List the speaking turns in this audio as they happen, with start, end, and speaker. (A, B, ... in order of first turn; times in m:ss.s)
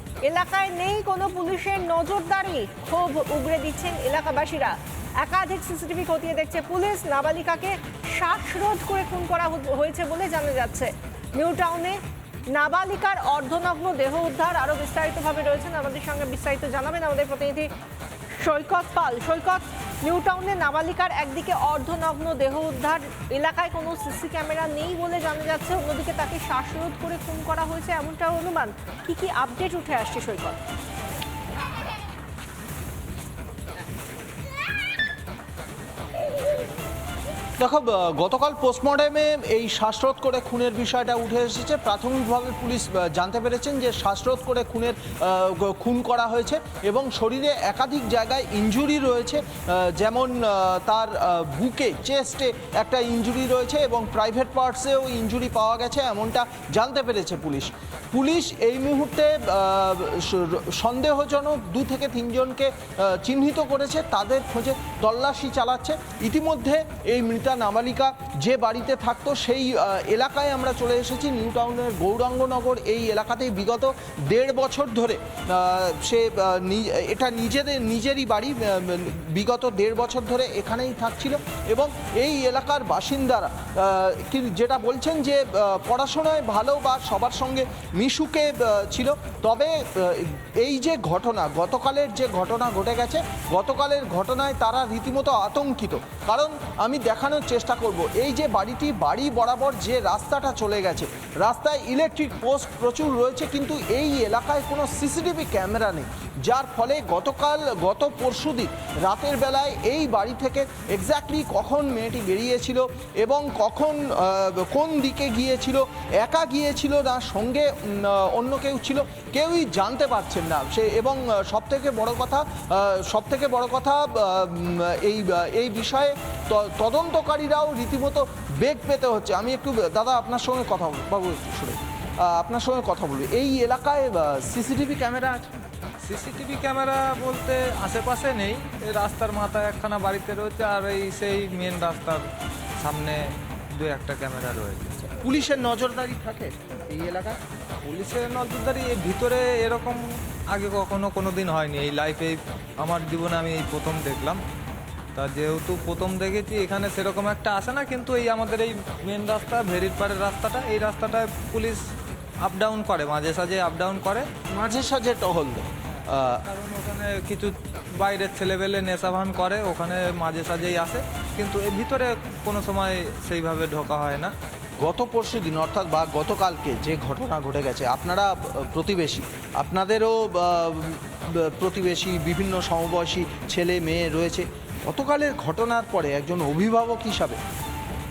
0:00.2-0:12.0 A
0:12.5-0:17.7 A
0:18.4-0:30.6 A
0:37.6-2:15.5 B
2:16.0-2:22.2 C
2:22.8-2:25.0 C
2:25.0-2:27.4 B
2:27.8-2:34.4 C
2:35.1-2:41.8 C
2:42.4-2:44.2 C
2:44.5-2:46.4 B
2:46.4-2:54.3 C
2:54.8-3:07.4 B